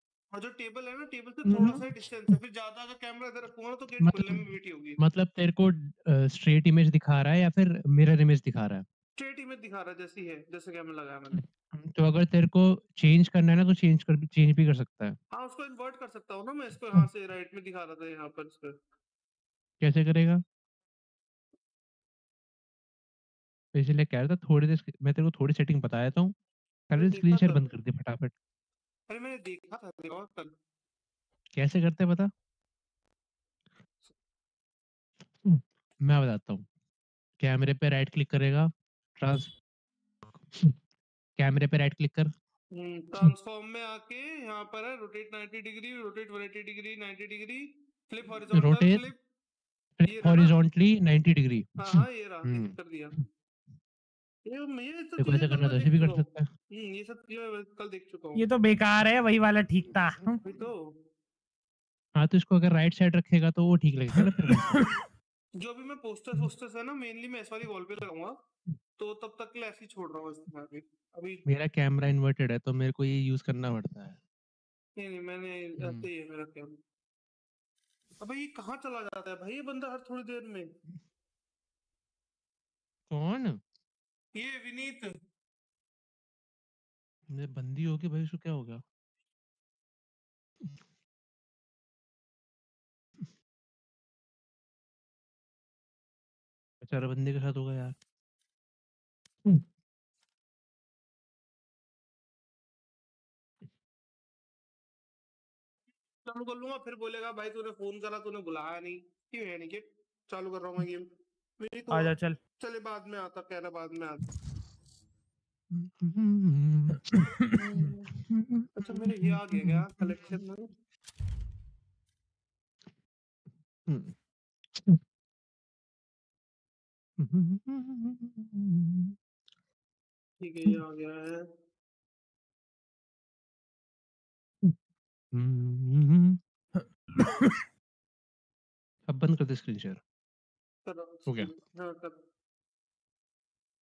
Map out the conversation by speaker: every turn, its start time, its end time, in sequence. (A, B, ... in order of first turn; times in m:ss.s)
0:00.3-0:05.0 A
0:01.4-0:01.9 B
0:04.0-0:04.4 B
0:05.0-0:08.8 B
0:09.2-0:11.4 A
0:11.8-0:15.2 B
0:15.3-0:18.8 A
0:19.8-0:20.4 B
0:23.8-0:26.3 B
0:26.9-0:28.3 B
0:27.0-0:27.7 A
0:29.1-0:30.5 A
0:31.6-0:32.3 B
0:35.4-0:36.6 B
0:37.4-0:39.5 B
0:41.4-0:42.3 B
0:42.8-0:49.2 A
0:48.5-0:49.1 B
0:50.0-0:53.2 B
0:50.1-0:50.5 A
0:51.8-0:53.1 A
0:54.5-0:58.4 A
0:55.2-0:56.5 B
0:58.4-1:00.4 C
1:00.4-1:00.9 A
1:02.2-1:04.7 B
1:04.4-1:04.9 C
1:05.6-1:08.4 A
1:09.0-1:11.4 A
1:11.5-1:14.2 B
1:15.0-1:16.8 A
1:15.8-1:16.1 B
1:18.2-1:20.7 A
1:23.1-1:23.6 B
1:24.4-1:25.1 A
1:27.3-1:28.8 B
1:36.8-1:37.9 B
1:46.3-1:51.1 A
1:51.6-1:54.2 A
1:51.9-1:52.4 C
1:55.7-1:57.0 B
1:57.0-1:57.6 C
1:57.6-1:58.1 A
1:58.8-2:00.7 A
1:58.9-2:00.4 B
2:03.9-2:04.1 B
2:07.2-2:09.2 B
2:10.4-2:11.4 A
2:15.3-2:16.4 B
2:16.8-2:17.6 C
2:19.1-2:20.0 B
2:20.9-2:22.2 A